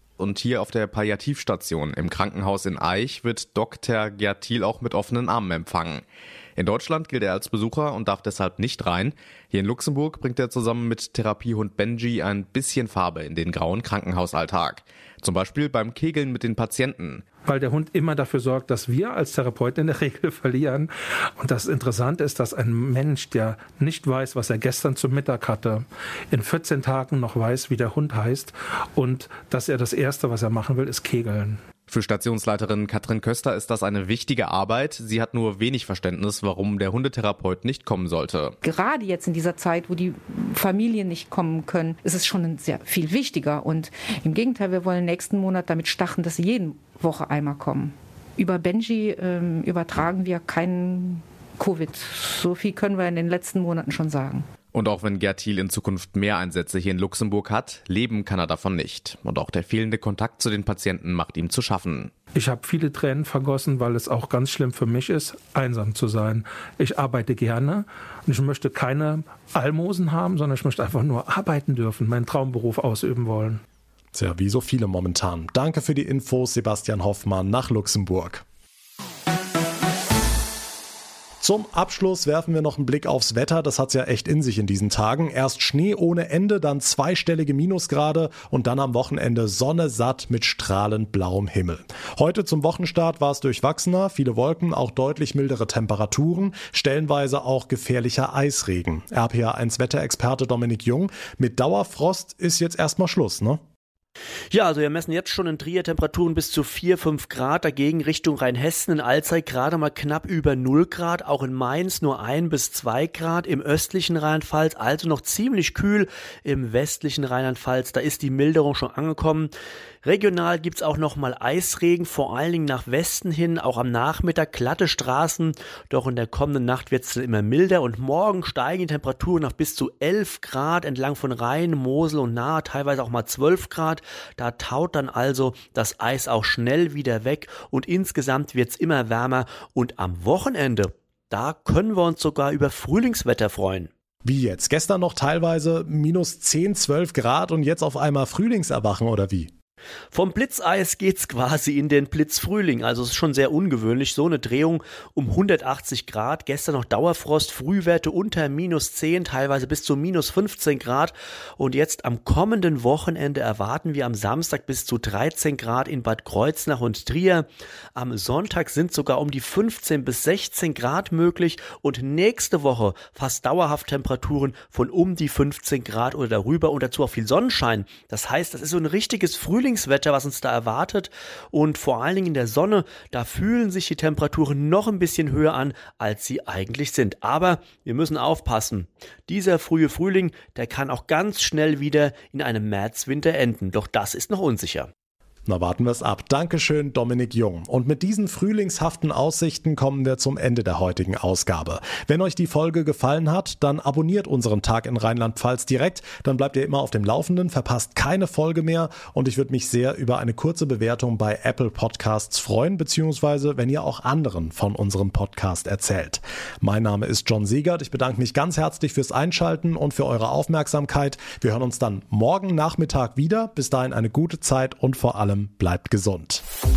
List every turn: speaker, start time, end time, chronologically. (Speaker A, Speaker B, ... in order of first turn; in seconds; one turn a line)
Speaker A: 0.2-6.0
Speaker A: 6.6-17.2
Speaker B: 17.5-31.6
Speaker A: 31.9-38.6
Speaker C: 38.6-54.5
Speaker A: 54.7-62.1
Speaker B: 62.4-73.6
Speaker D: 74.1-78.4
Speaker D: 81.4-103.6
Speaker E: 104.5-119.5
Speaker E: 120.0-143.9
Speaker D: 144.2-149.5
Speaker E: 150.1-194.9
Speaker D: 195.5-226.4